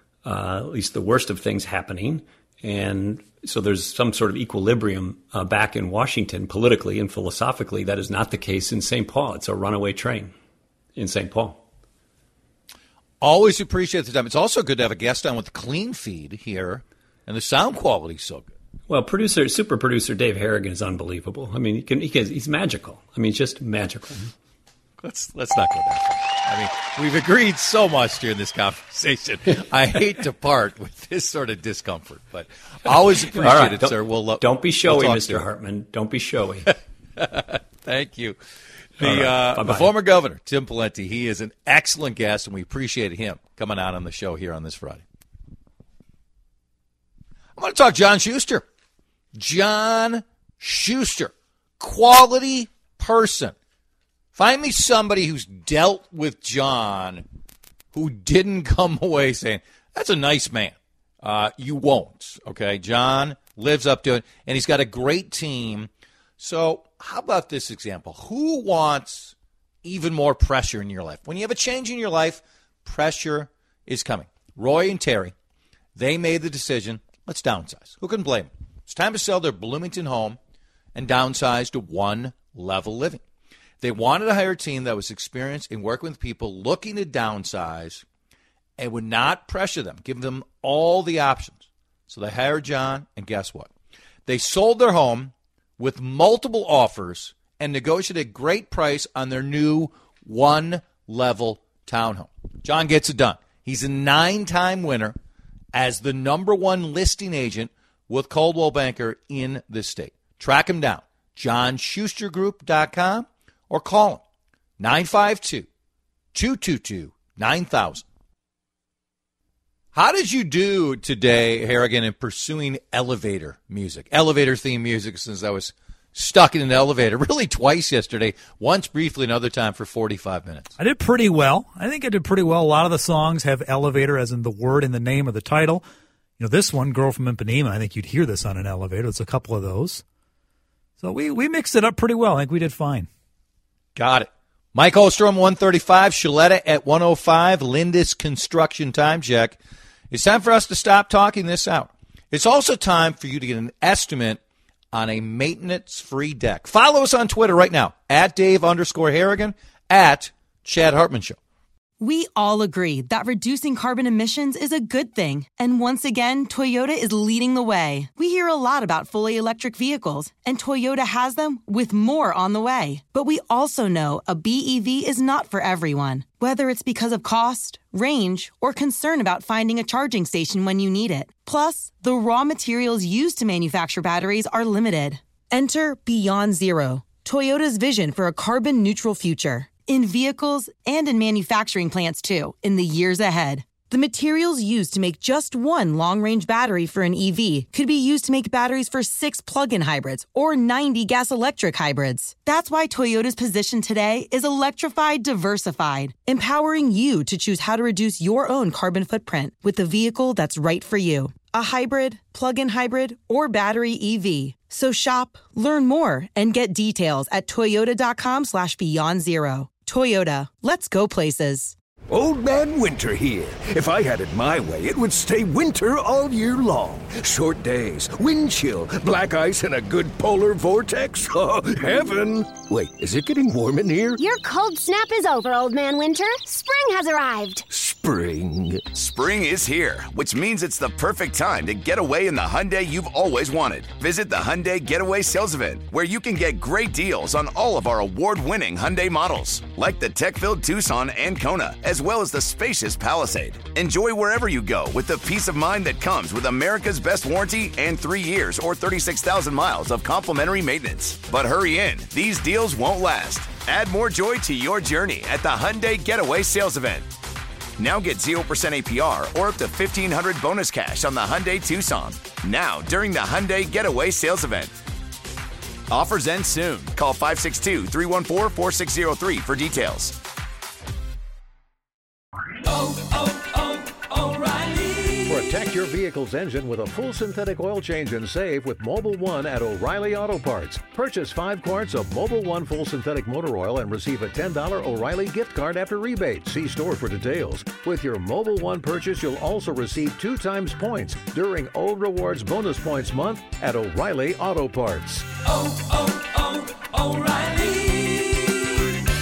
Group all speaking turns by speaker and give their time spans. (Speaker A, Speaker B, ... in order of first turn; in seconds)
Speaker A: 0.2-10.3, 10.9-11.6, 18.9-24.3, 33.1-36.7, 39.0-39.9
Speaker B: 13.2-18.5, 25.0-35.5, 37.2-38.4, 39.0-45.0, 47.5-48.6, 49.3-53.5, 54.3-57.2, 57.9-75.3, 76.0-80.4, 81.0-83.2, 83.8-88.0, 88.8-93.7, 94.2-105.2, 105.7-114.2, 114.8-115.7, 116.3-118.0, 119.9-130.8, 143.9-149.6, 150.1-154.4, 154.9-161.4
Speaker C: 130.8-135.8, 136.4-140.0, 141.0-143.1
Speaker D: 162.0-221.7
Speaker E: 222.1-234.2, 237.7-238.9
Speaker F: 234.2-237.7
Speaker G: 238.9-267.1, 267.8-274.7, 275.9-280.2
Speaker H: 285.2-306.1, 306.9-308.1